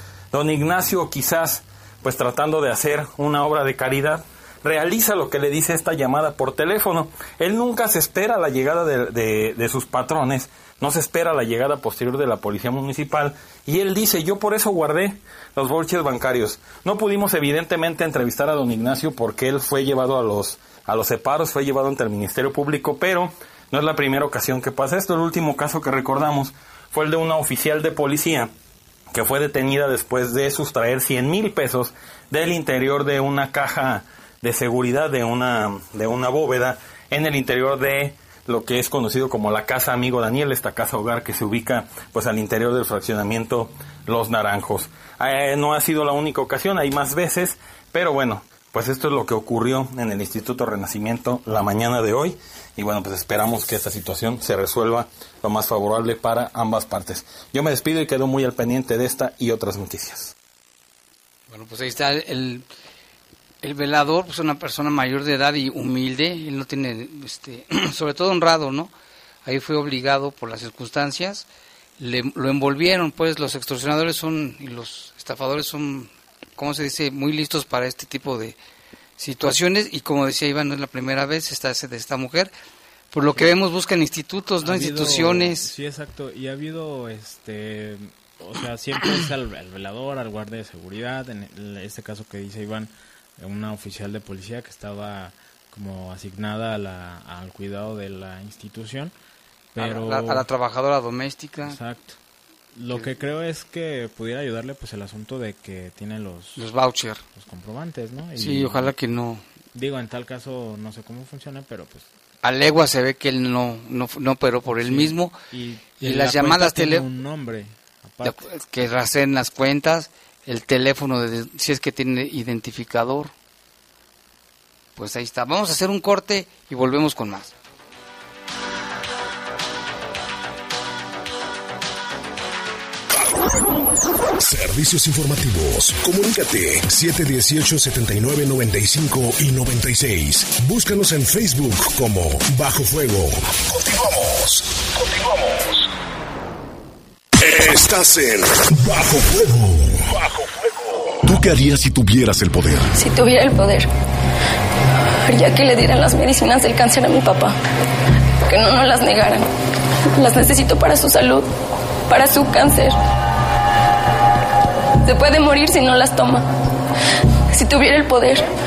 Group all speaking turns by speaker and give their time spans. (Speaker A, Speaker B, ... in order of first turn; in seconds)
Speaker A: 0.3-28.5, 29.1-60.3
Speaker B: 61.5-62.7, 63.6-68.9, 69.5-71.5, 72.0-78.6, 79.2-82.5, 83.1-85.7, 99.8-101.8, 106.6-107.2, 108.4-109.4, 112.4-115.3, 116.0-117.0, 118.2-123.3, 125.0-127.5
Speaker C: 84.6-99.1, 99.7-100.5, 101.7-102.2, 102.7-106.7, 107.3-108.9, 109.7-112.1, 114.8-118.5
Speaker D: 134.4-145.2, 147.4-150.5, 151.2-152.9
Speaker E: 152.9-153.9, 155.3-157.6, 158.5-159.5, 160.1-161.5, 162.1-162.9, 165.1-166.5, 167.5-168.5